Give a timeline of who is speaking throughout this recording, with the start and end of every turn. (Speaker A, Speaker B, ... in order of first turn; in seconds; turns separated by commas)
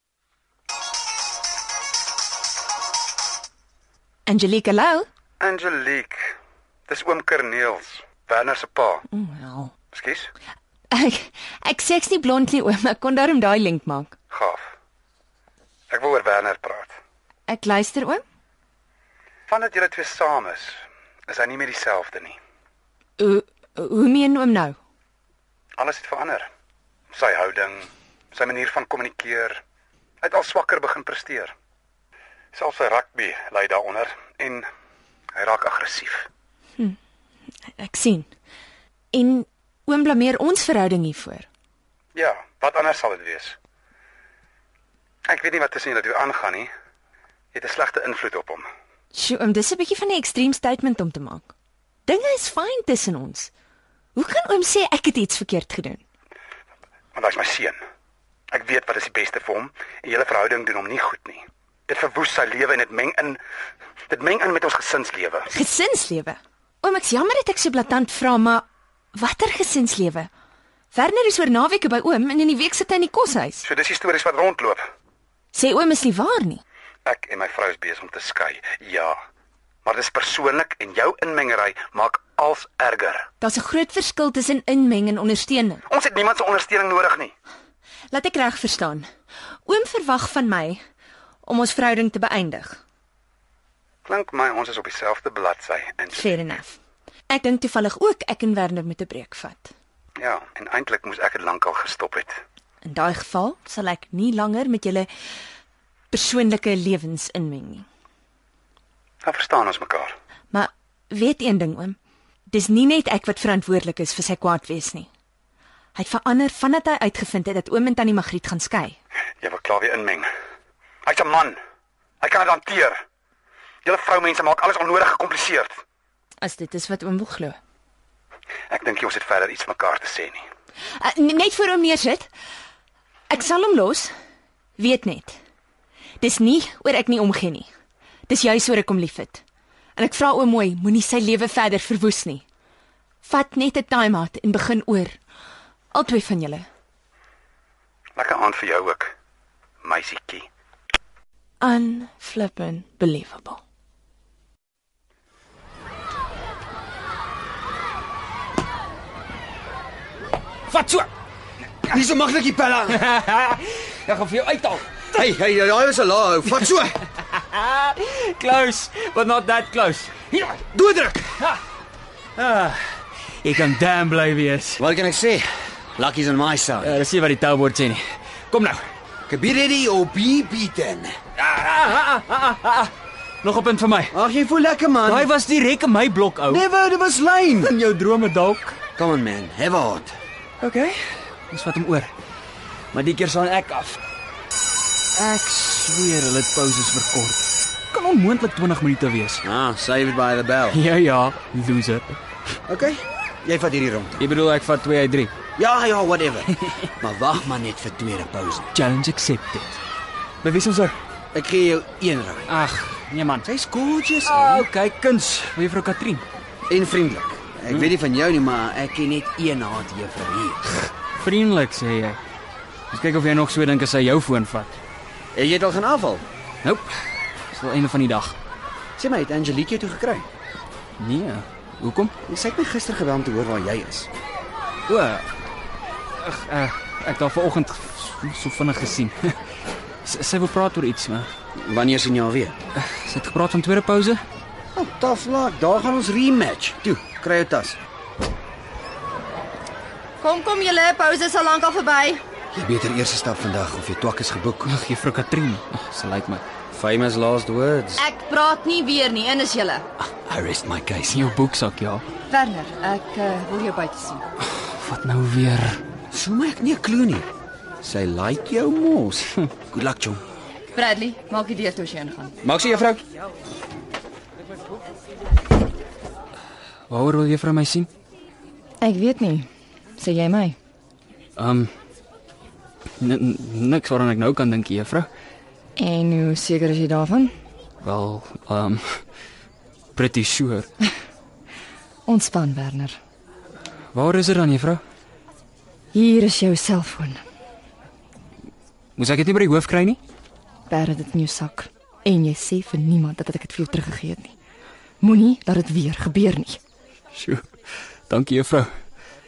Speaker A: 4.2-5.1, Speaker B: 5.4-6.3, Speaker B: 6.9-9.1, Speaker A: 9.1-9.7, Speaker B: 9.9-10.3, Speaker A: 10.9-14.1, Speaker B: 14.3-14.7, Speaker B: 15.9-16.9, Speaker A: 17.5-18.2, Speaker B: 19.5-22.4, Speaker A: 23.2-24.8, Speaker B: 25.8-26.5, Speaker B: 27.1-29.6, Speaker B: 30.2-31.5, Speaker B: 32.5-34.7, Speaker B: 35.3-36.3, Speaker A: 37.8-38.3, Speaker A: 39.1-41.5, Speaker B: 42.1-43.6, Speaker B: 45.2-46.7, Speaker B: 47.5-48.7, Speaker A: 49.1-51.5, Speaker A: 52.0-53.5, Speaker A: 54.1-56.0, Speaker B: 57.1-57.8, Speaker B: 58.5-63.4, Speaker B: 64.1-65.5, Speaker A: 65.5-70.3, Speaker A: 70.9-73.7, Speaker B: 73.6-74.8, Speaker A: 75.5-76.6, Speaker B: 77.0-79.2, Speaker B: 79.8-83.3, Speaker A: 83.4-85.8, Speaker B: 85.9-87.3, Speaker A: 88.1-89.1, Speaker A: 89.7-90.8, Speaker A: 91.4-92.8, Speaker B: 94.0-96.3, Speaker A: 96.1-96.8, Speaker A: 97.3-99.7, Speaker B: 100.2-102.4, Speaker A: 102.8-105.1, Speaker A: 106.1-107.8, Speaker B: 109.2-110.1, Speaker A: 110.5-112.0, Speaker A: 112.5-115.1, Speaker A: 115.9-119.0, Speaker B: 119.4-120.3, Speaker B: 121.0-121.6, Speaker B: 122.2-123.0, Speaker B: 123.8-125.8, Speaker A: 126.4-127.6, Speaker B: 128.7-130.4, Speaker A: 131.0-132.3, Speaker A: 133.3-134.1, Speaker A: 134.8-135.4, Speaker A: 136.2-137.7, Speaker A: 138.3-139.4, Speaker A: 139.9-142.4, Speaker A: 143.2-145.2, Speaker A: 145.9-146.7, Speaker B: 148.2-149.1, Speaker B: 149.8-150.5, Speaker A: 151.6-153.6, Speaker C: 160.7-161.1, Speaker D: 161.9-163.0, Speaker C: 162.9-165.1, Speaker D: 165.1-167.0, Speaker C: 167.2-171.6, Speaker C: 172.4-172.8, Speaker C: 173.4-174.8, Speaker D: 174.8-177.0, Speaker C: 176.8-178.8, Speaker D: 179.3-181.2, Speaker C: 181.4-182.9, Speaker C: 183.4-184.2, Speaker D: 184.1-185.3, Speaker C: 185.0-186.6, Speaker D: 186.5-187.7, Speaker C: 187.6-188.8, Speaker D: 189.0-190.2, Speaker C: 190.6-192.1, Speaker D: 192.9-194.0, Speaker C: 195.2-199.4, Speaker D: 199.4-200.8, Speaker C: 200.7-202.2, Speaker D: 202.7-204.2, Speaker C: 204.2-205.3, Speaker D: 205.6-208.7, Speaker C: 208.7-209.8, Speaker C: 210.4-210.9, Speaker D: 211.3-212.5, Speaker C: 212.5-213.5, Speaker D: 213.4-214.7, Speaker C: 214.2-216.2, Speaker D: 216.7-220.6, Speaker C: 221.2-222.2, Speaker C: 222.9-224.8, Speaker D: 225.3-226.2, Speaker C: 226.6-228.4, Speaker D: 229.0-230.3, Speaker C: 231.0-232.1, Speaker D: 232.2-234.1, Speaker C: 234.9-235.3, Speaker C: 236.2-239.4, Speaker C: 240.0-241.3, Speaker D: 241.6-242.6, Speaker C: 242.7-244.2, Speaker D: 244.7-247.8, Speaker E: 250.2-252.2, Speaker D: 252.5-254.7, Speaker C: 254.6-256.4, Speaker D: 256.7-258.0, Speaker E: 258.0-259.9, Speaker D: 260.0-261.3, Speaker C: 261.1-262.0, Speaker E: 262.3-264.2, Speaker C: 264.4-265.8, Speaker D: 266.1-267.3, Speaker D: 267.8-270.2, Speaker E: 270.7-272.3, Speaker D: 272.4-273.0, Speaker C: 276.9-277.9, Speaker E: 278.8-280.6, Speaker C: 281.4-281.7, Speaker C: 283.0-285.1, Speaker E: 285.8-287.3, Speaker C: 287.8-289.0, Speaker C: 289.9-290.7, Speaker E: 292.1-293.0, Speaker C: 293.9-294.8, Speaker E: 295.9-297.2, Speaker C: 299.0-300.0, Speaker E: 300.7-304.3, Speaker E: 305.0-306.6, Speaker C: 307.1-307.5, Speaker C: 308.1-308.7